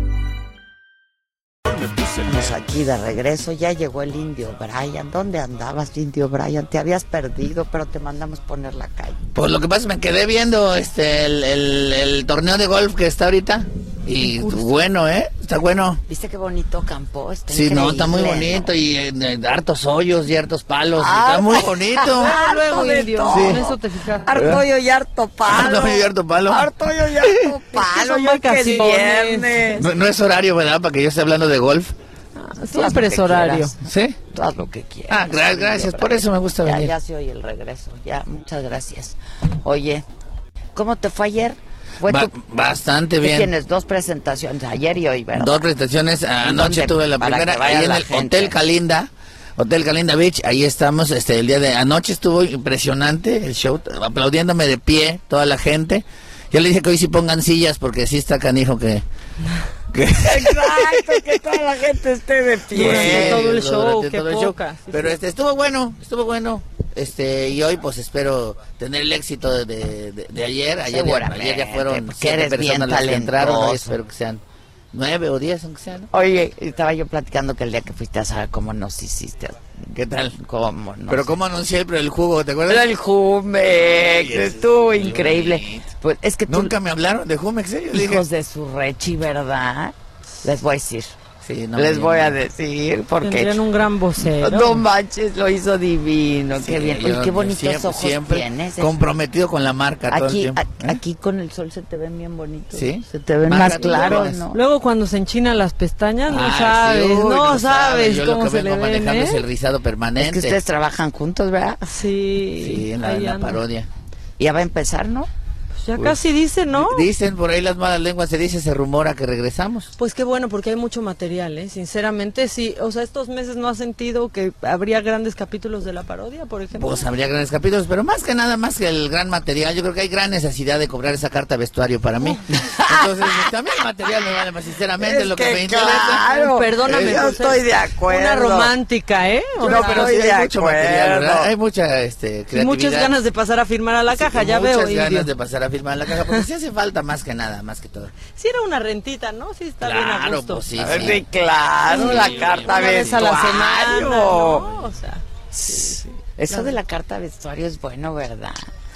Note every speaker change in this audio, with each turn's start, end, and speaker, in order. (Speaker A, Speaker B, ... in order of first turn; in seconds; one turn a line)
Speaker A: 2.1-9.2
Speaker B: 9.3-16.0
Speaker C: 14.2-14.8
Speaker A: 16.1-18.7
Speaker B: 17.5-22.4
Speaker A: 21.0-29.8
Speaker C: 22.1-24.4
Speaker B: 23.3-23.6
Speaker B: 24.3-24.6
Speaker B: 25.4-27.5
Speaker C: 27.7-29.8
Speaker B: 29.8-31.9
Speaker C: 32.4-33.7
Speaker A: 32.7-40.0
Speaker B: 33.8-34.2
Speaker B: 35.1-36.9
Speaker A: 40.7-42.3
Speaker B: 42.0-43.5
Speaker A: 43.2-45.6
Speaker B: 45.3-59.0
Speaker A: 46.4-48.6
Speaker B: 59.9-61.3
Speaker A: 60.2-63.4
Speaker C: 62.7-65.2
Speaker B: 62.7-76.1
Speaker A: 70.9-74.0
Speaker A: 76.1-79.6
Speaker B: 79.9-80.4
Speaker A: 80.4-81.3
Speaker B: 81.1-82.9
Speaker A: 82.7-86.7
Speaker B: 83.7-85.9
Speaker B: 86.5-88.2
Speaker A: 87.9-91.2
Speaker B: 91.4-92.4
Speaker A: 91.8-93.6
Speaker C: 93.2-94.8
Speaker A: 94.2-99.0
Speaker B: 96.5-101.0
Speaker A: 100.1-104.6
Speaker B: 102.7-104.4
Speaker C: 103.6-109.4
Speaker B: 106.2-110.6
Speaker A: 110.2-112.0
Speaker C: 111.8-113.6
Speaker B: 112.5-113.9
Speaker A: 114.4-115.3
Speaker C: 115.8-117.1
Speaker B: 116.7-119.9
Speaker C: 120.0-127.1
Speaker B: 126.7-136.3
Speaker A: 132.5-133.5
Speaker A: 135.0-138.7
Speaker C: 136.2-140.2
Speaker B: 136.8-137.4
Speaker B: 139.6-143.1
Speaker A: 139.6-141.5
Speaker C: 142.5-145.3
Speaker B: 144.1-148.2
Speaker C: 146.1-146.5
Speaker C: 148.2-151.2
Speaker B: 149.8-151.2
Speaker A: 150.8-154.7
Speaker C: 151.8-156.7
Speaker B: 151.9-153.4
Speaker A: 155.5-158.6